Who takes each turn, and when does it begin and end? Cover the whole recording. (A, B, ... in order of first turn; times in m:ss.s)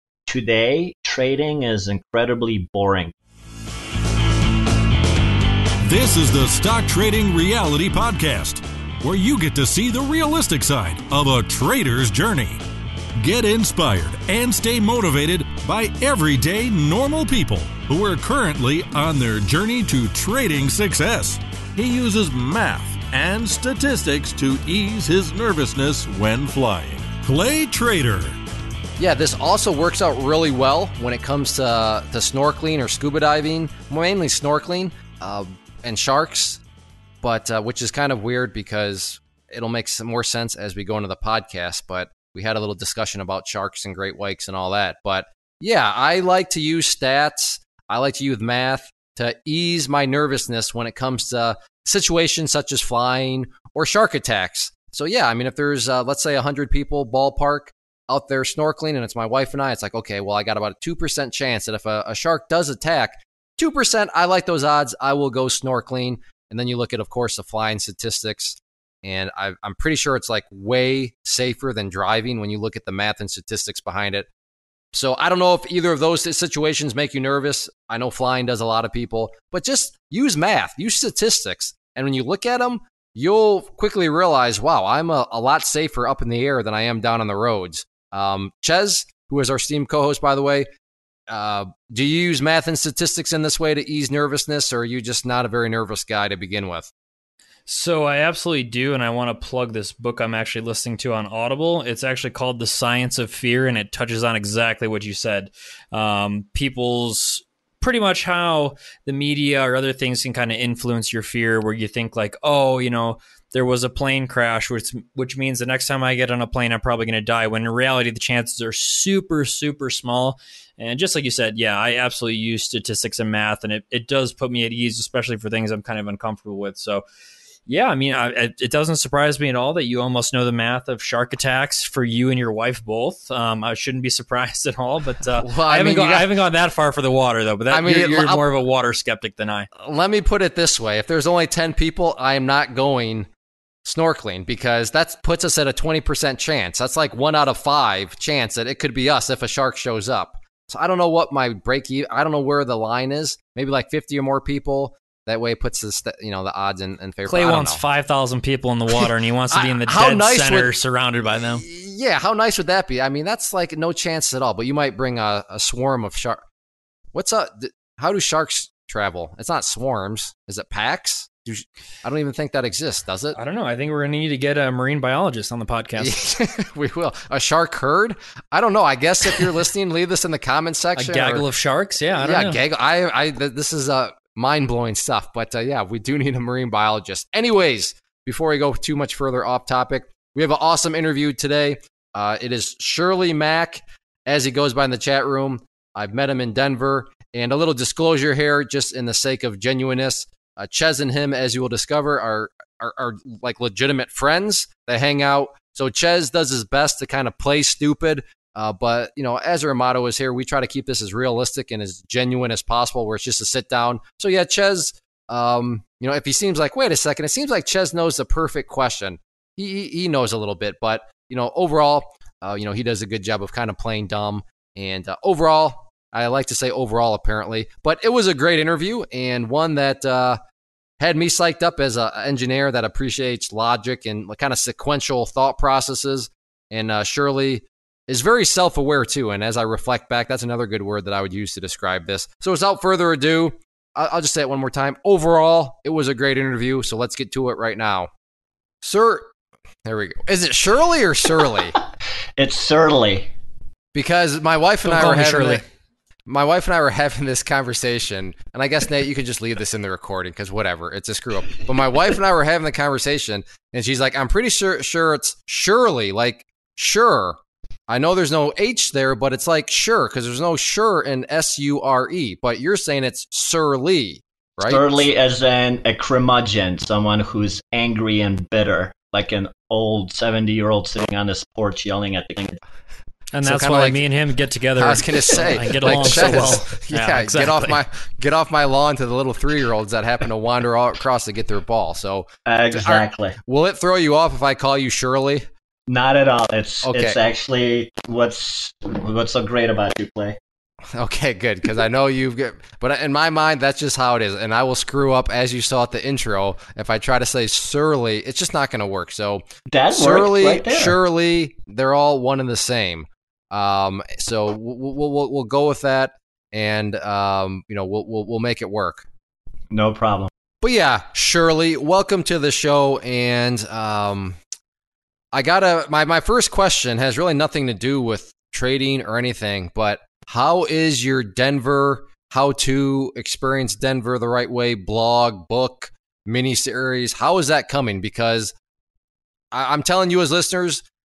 0:00.3-0:03.1 A
0:05.8-0:12.6 B
0:13.2-0:28.4 B
0:29.0-0:36.6 C
0:37.2-1:14.3 C
1:14.9-1:30.7 C
1:31.3-1:36.9 C
1:37.7-2:07.0 D
2:07.7-2:19.7 D
2:15.4-2:16.3 C
2:17.7-2:18.4 C
2:19.7-2:23.3 C
2:23.8-2:37.8 C
2:37.2-2:41.6 D
2:38.9-2:40.7 C
2:41.5-2:46.4 C
2:47.1-2:53.4 C
2:53.4-2:56.3 D
2:56.0-3:01.4 C
3:01.0-3:02.6 D
3:02.2-3:50.4 C
3:51.0-4:08.1 C
4:08.8-4:09.3 C
4:09.8-4:11.8 C
4:12.4-4:13.3 A
4:13.9-4:15.6 C
4:14.8-4:15.6 D
4:16.3-4:27.4 C
4:27.9-4:35.1 C
4:34.6-4:42.6 A
4:43.3-4:47.8 D
4:43.4-4:44.0 C
4:44.8-4:55.4 C
4:52.4-4:53.4 A
4:55.9-5:00.4 A
4:56.8-4:57.2 C
5:00.9-5:19.0 C
5:09.7-5:11.0 A
5:19.7-5:20.3 A
5:20.6-5:24.4 C
5:25.3-5:38.5 C
5:39.5-5:40.8 C